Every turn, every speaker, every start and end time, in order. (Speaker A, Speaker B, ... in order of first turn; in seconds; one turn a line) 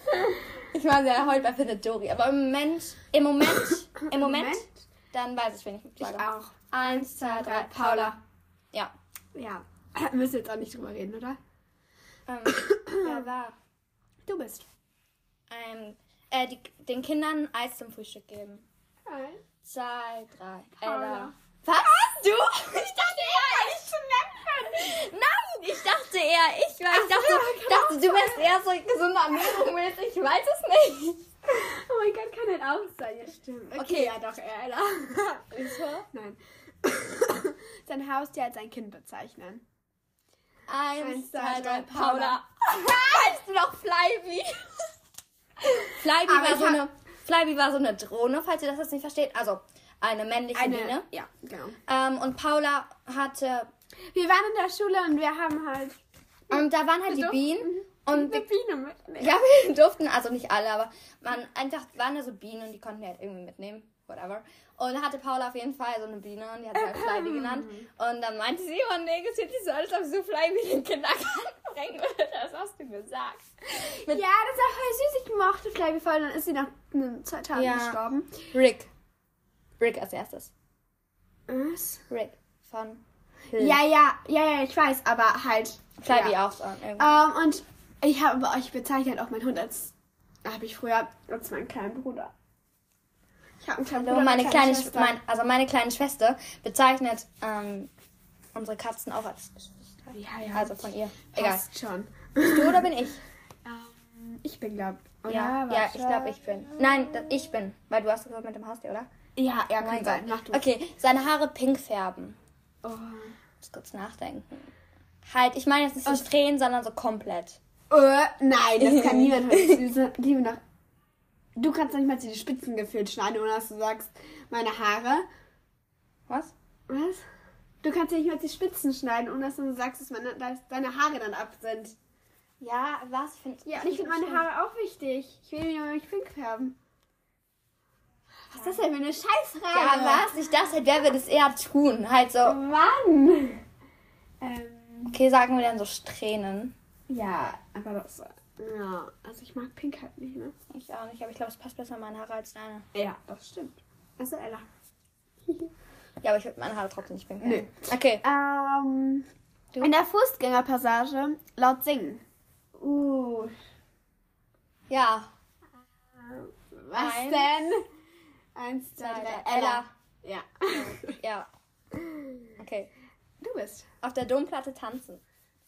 Speaker A: 0.6-8.2
Speaker B: 4.0-4.7
Speaker B: 6.0-8.2
Speaker B: 9.3-11.4
Speaker A: 12.3-13.6
Speaker B: 12.5-13.3
Speaker B: 14.2-14.7
Speaker A: 15.5-18.6
Speaker B: 19.1-19.4
Speaker A: 19.6-23.9
Speaker B: 20.8-21.3
Speaker B: 22.9-24.9
Speaker A: 24.6-31.2
Speaker B: 26.9-28.5
Speaker B: 31.5-39.6
Speaker A: 33.7-34.2
Speaker A: 35.5-36.1
Speaker A: 40.7-44.9
Speaker B: 41.0-42.9
Speaker A: 45.7-51.1
Speaker B: 46.2-46.9
Speaker B: 50.5-51.8
Speaker A: 51.9-53.7
Speaker B: 54.1-56.0
Speaker A: 56.5-58.4
Speaker B: 56.5-59.4
Speaker A: 59.2-74.2
Speaker B: 66.7-67.9
Speaker B: 74.1-78.4
Speaker A: 77.5-78.0
Speaker A: 78.5-78.9
Speaker A: 79.8-80.5
Speaker B: 81.5-82.0
Speaker A: 82.1-83.8
Speaker B: 83.6-86.4
Speaker A: 86.0-87.2
Speaker B: 87.0-89.9
Speaker B: 90.4-92.3
Speaker B: 93.6-95.2
Speaker A: 94.0-97.9
Speaker A: 98.5-101.7
Speaker B: 100.1-102.9
Speaker A: 102.4-103.2
Speaker B: 103.7-106.8
Speaker A: 105.3-109.1
Speaker B: 109.4-110.6
Speaker A: 109.8-112.4
Speaker B: 112.8-113.3
Speaker A: 113.6-114.7
Speaker A: 115.3-117.6
Speaker B: 117.9-120.6
Speaker A: 118.8-119.8
Speaker B: 121.6-125.2
Speaker B: 126.9-127.2
Speaker B: 127.8-132.0
Speaker A: 132.6-134.5
Speaker B: 133.7-136.8
Speaker B: 138.5-140.4
Speaker A: 139.7-142.6
Speaker B: 142.4-143.6
Speaker B: 144.4-145.2
Speaker A: 145.1-146.7
Speaker B: 147.1-150.5
Speaker A: 150.7-152.9
Speaker B: 152.9-154.7
Speaker A: 156.2-158.2
Speaker B: 157.4-159.3
Speaker B: 159.8-162.2
Speaker B: 162.8-163.6
Speaker A: 164.9-165.3
Speaker B: 166.2-167.8
Speaker A: 166.9-167.5
Speaker B: 168.6-171.2
Speaker A: 169.0-169.9
Speaker A: 170.7-171.5
Speaker B: 171.9-172.4
Speaker A: 172.6-172.9
Speaker B: 173.4-173.9
Speaker A: 174.0-175.2